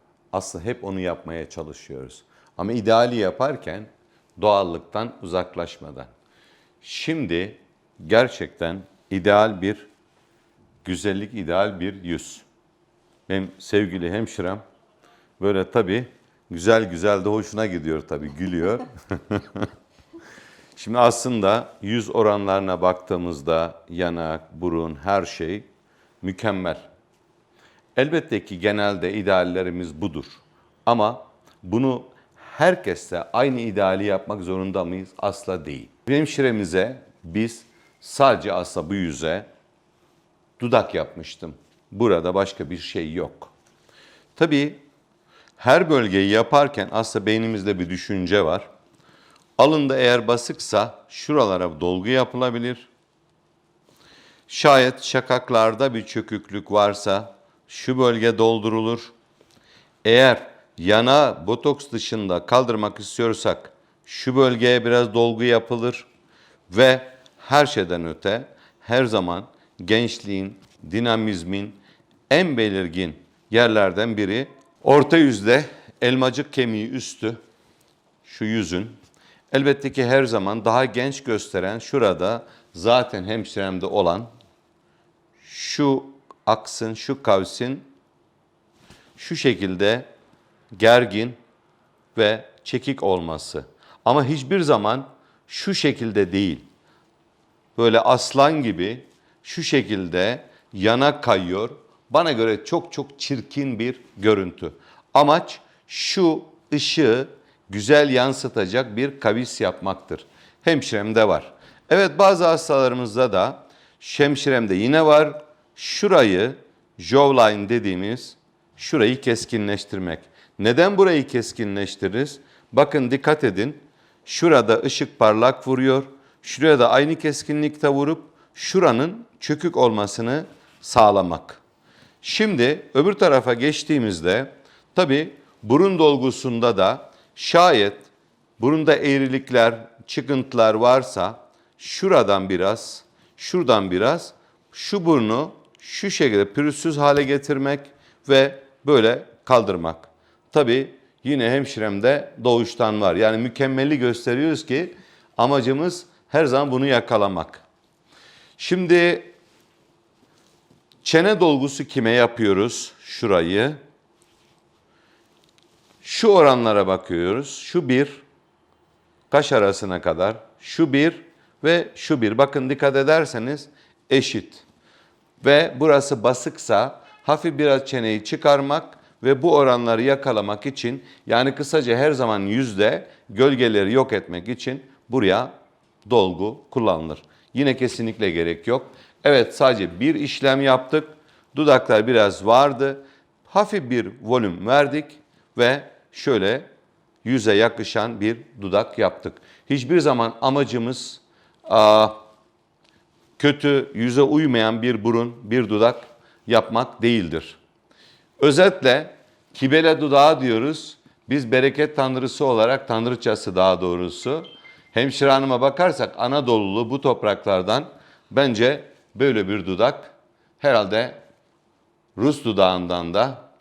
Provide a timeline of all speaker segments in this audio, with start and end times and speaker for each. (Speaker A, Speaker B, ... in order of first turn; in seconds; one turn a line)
Speaker A: 0.3-3.9
Speaker A: 4.4-6.1
Speaker A: 6.8-9.9
Speaker A: 10.8-12.4
Speaker A: 13.3-14.6
Speaker A: 15.4-19.7
Speaker A: 20.8-25.6
Speaker A: 26.2-26.9
Speaker A: 28.0-39.5
Speaker A: 40.6-43.5
Speaker A: 44.4-44.8
Speaker A: 45.6-48.7
Speaker A: 49.6-52.9
Speaker A: 54.5-59.1
Speaker A: 60.0-66.1
Speaker A: 66.7-71.8
Speaker A: 72.3-77.4
Speaker A: 78.2-79.0
Speaker A: 79.5-84.3
Speaker A: 85.4-87.9
Speaker A: 89.2-90.1
Speaker A: 90.7-91.4
Speaker A: 92.2-96.7
Speaker A: 97.8-131.6
Speaker A: 132.2-157.7
Speaker A: 158.6-159.3
Speaker A: 161.0-163.8
Speaker A: 166.0-168.2
Speaker A: 169.3-174.6
Speaker A: 175.4-185.5
Speaker A: 186.1-196.7
Speaker A: 197.2-202.2
Speaker A: 203.4-207.6
Speaker A: 208.4-221.2
Speaker A: 222.2-223.4